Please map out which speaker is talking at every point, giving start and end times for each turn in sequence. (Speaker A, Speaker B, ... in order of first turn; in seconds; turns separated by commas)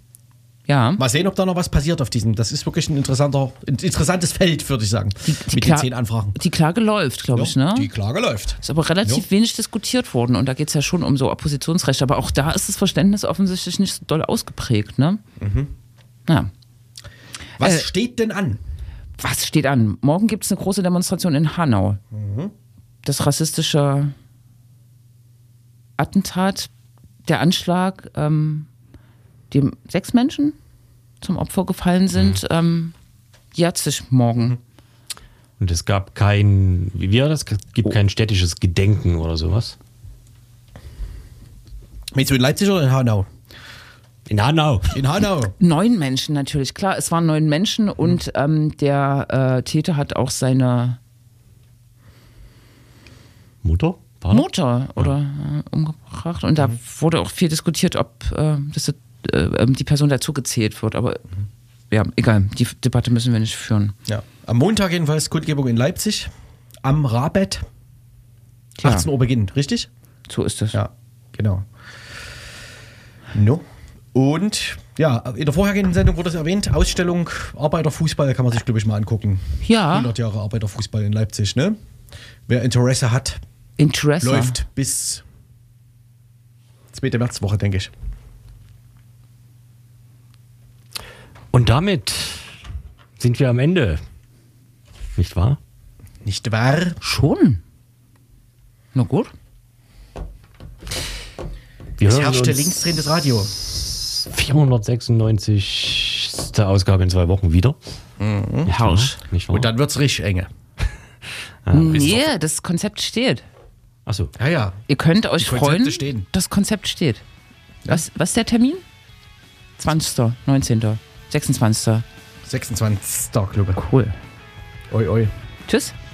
Speaker A: 0.7-1.0, Speaker B: 1.0-6.3, Speaker A: 5.2-7.9, Speaker B: 7.3-9.2, Speaker A: 8.6-15.2, Speaker B: 15.4-15.7, Speaker B: 17.6-18.6, Speaker A: 17.6-17.9, Speaker A: 19.2-22.0, Speaker B: 22.1-22.5, Speaker A: 23.0-24.1, Speaker A: 26.0-26.7, Speaker A: 27.2-28.7, Speaker A: 29.5-30.6, Speaker A: 31.2-32.9, Speaker C: 32.1-32.4, Speaker A: 33.5-34.6, Speaker C: 35.6-39.8, Speaker B: 42.1-43.3, Speaker C: 44.3-45.0, Speaker B: 44.9-45.5, Speaker A: 45.6-51.0, Speaker C: 53.6-54.5, Speaker A: 54.3-61.2, Speaker A: 61.9-64.0, Speaker B: 64.1-66.3, Speaker B: 66.8-67.7, Speaker A: 68.8-69.1, Speaker B: 68.8-69.9, Speaker A: 70.3-70.8, Speaker B: 70.7-71.7, Speaker B: 73.3-81.8, Speaker A: 79.6-80.1, Speaker B: 82.5-83.4, Speaker A: 83.8-84.6, Speaker B: 84.2-85.2, Speaker B: 86.9-87.9, Speaker C: 91.5-92.6, Speaker C: 93.2-94.0, Speaker C: 95.2-95.6, Speaker B: 96.2-97.0, Speaker A: 97.0-97.6, Speaker A: 98.9-99.3, Speaker C: 102.0-103.0, Speaker B: 102.0-103.5, Speaker C: 103.5-107.8, Speaker B: 108.2-108.7, Speaker A: 108.7-109.2, Speaker C: 108.7-109.7, Speaker B: 109.5-110.5, Speaker C: 111.6-112.3, Speaker A: 111.7-113.4, Speaker C: 114.0-114.3, Speaker B: 114.4-114.8, Speaker A: 114.9-117.2, Speaker B: 115.4-116.3, Speaker A: 117.9-118.8, Speaker A: 119.8-122.0, Speaker B: 122.5-123.8, Speaker A: 123.8-124.2, Speaker B: 124.9-125.3, Speaker A: 125.7-125.9